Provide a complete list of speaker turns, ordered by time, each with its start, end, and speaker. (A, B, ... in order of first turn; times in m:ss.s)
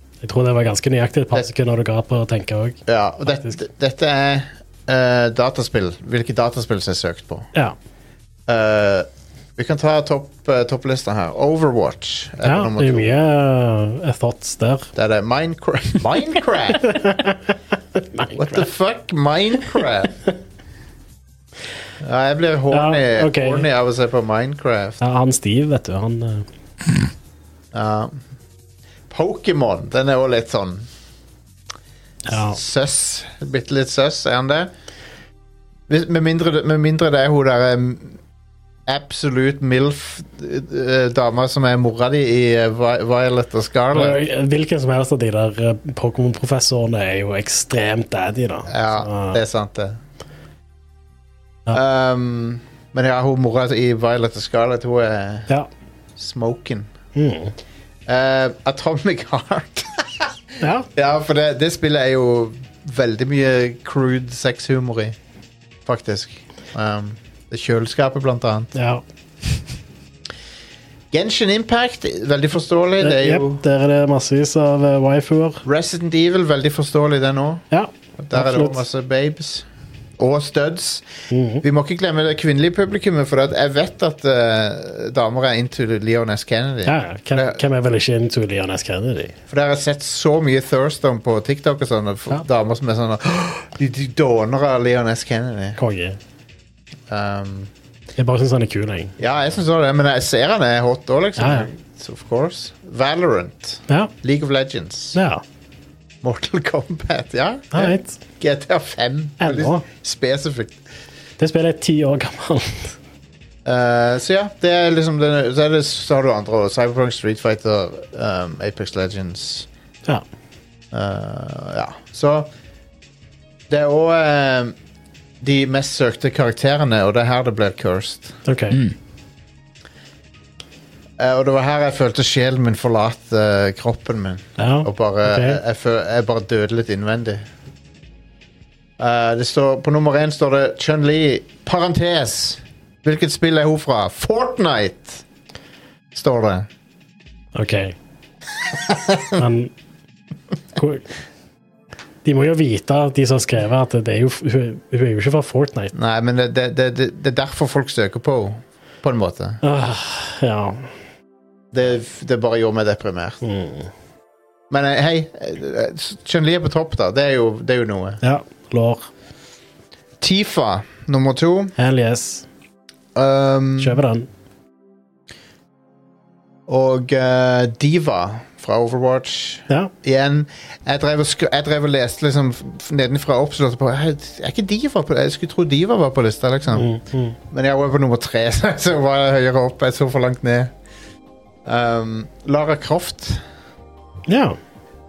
0:00.2-0:02.8 A
0:02.9-0:07.5 B
0:08.5-0:13.1 B
0:12.4-0:14.9 A
0:15.0-0:17.0 B
0:16.8-0:17.4 A
0:18.0-0:18.7 A
0:18.3-0:20.2 B
0:22.0-0:25.0 B
0:22.7-0:23.7 A
0:25.0-0:26.5 A
0:27.7-0:28.2 B
0:29.1-0:30.9 B
0:32.3-0:32.6 A
0:32.3-0:34.7 B
0:35.9-0:38.2 B
0:38.9-0:44.2 B
0:43.9-0:49.4 A
0:48.7-0:50.0 B
0:51.7-0:55.5 B
0:56.2-0:56.9 B
0:57.2-0:57.5 A
0:58.1-1:05.2 B
1:00.6-1:00.9 A
1:05.9-1:08.7 B
1:08.8-1:09.0 A
1:11.1-1:13.6 B
1:13.0-1:15.6 A
1:15.6-1:17.6 B
1:17.7-1:18.8 A
1:18.2-1:19.7 B
1:20.2-1:21.1 B
1:21.3-1:21.6 A
1:21.6-1:27.6 B
1:26.9-1:29.4 A
1:29.5-1:35.8 B
1:35.8-1:36.2 A
1:37.1-1:37.7 B
1:38.2-1:39.1 A
1:39.2-1:45.2 B
1:41.4-1:41.7 A
1:45.1-1:45.4 A
1:46.2-1:50.8 B
1:47.7-1:48.2 A
1:49.4-1:49.9 A
1:51.4-1:53.0 A
1:53.6-1:59.7 B
2:00.9-2:02.5 B
2:03.7-2:04.8 B
2:05.4-2:08.4 B
2:08.4-2:08.8 A
2:11.2-2:17.4 B
2:14.6-2:15.6 A
2:19.0-2:25.2 B
2:26.1-2:26.7 B
2:27.6-2:28.0 A
2:28.9-2:29.3 B
2:29.4-2:29.7 A
2:30.8-2:31.1 A
2:32.2-2:35.9 A
2:35.9-2:39.6 B
2:39.6-2:40.9 A
2:41.7-2:43.4 B
2:43.4-2:43.9 A
2:44.7-2:48.2 B
2:48.2-2:49.1 A
2:50.2-2:51.7 B
2:51.8-2:52.5 A
2:53.2-2:54.0 B
2:53.8-2:54.3 A
2:56.7-3:06.9 B
3:06.7-3:07.4 A
3:07.5-3:10.7 B
3:11.6-3:13.4 B
3:14.3-3:14.6 A